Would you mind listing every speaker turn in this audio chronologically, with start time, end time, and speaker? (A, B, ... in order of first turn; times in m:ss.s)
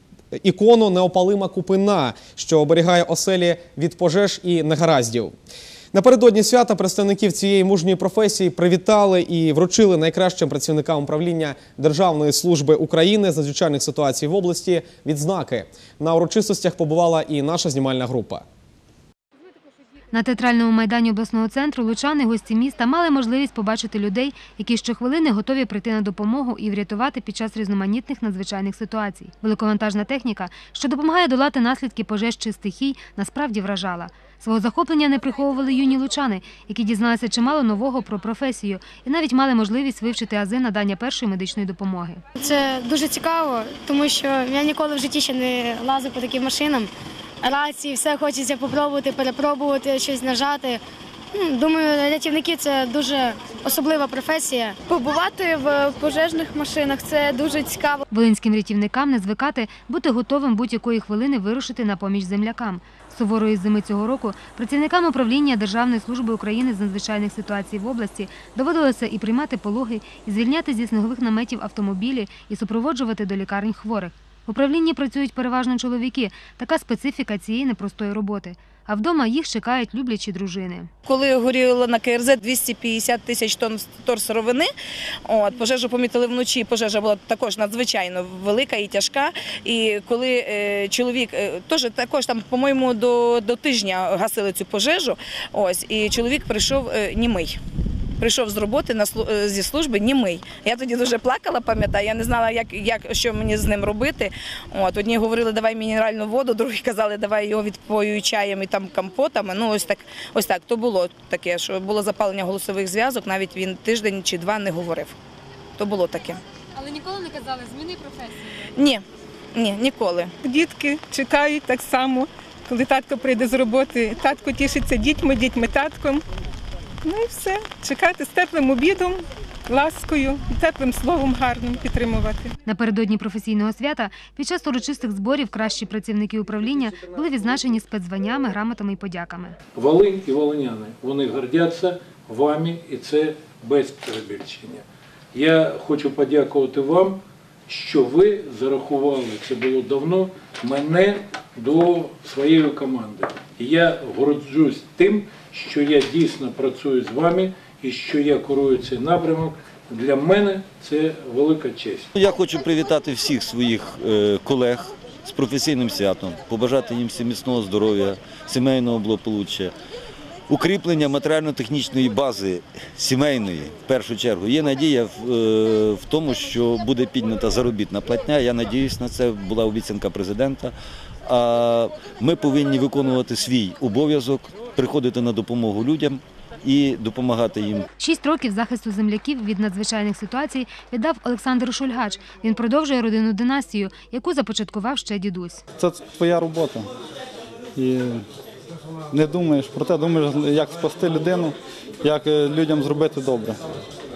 0:00.4-0:05.3 A
0:05.9-0:18.4 A
0:20.1-0:42.2 B
0:42.4-0:46.9 C
0:47.4-0:50.8 C
0:51.3-0:54.8 C
0:54.9-0:58.0 D
0:58.1-1:20.9 B
1:21.1-1:24.7 E
1:25.3-1:37.6 E
1:38.2-1:55.2 E
1:55.8-1:56.4 E
1:56.8-1:58.5 B
1:58.8-1:59.0 E
1:59.6-2:00.3 E
2:00.4-2:06.2 F
2:07.0-2:12.6 F
2:12.6-2:19.6 B
2:19.8-2:24.8 G
2:25.4-2:27.1 G
2:27.7-2:30.0 G
2:31.7-2:42.1 G
2:42.2-2:49.7 H
2:50.5-3:00.7 H
3:01.3-3:07.9 H
3:08.0-3:15.6 B
3:15.8-3:16.9 I
3:17.8-3:18.2 I
3:19.1-3:23.6 I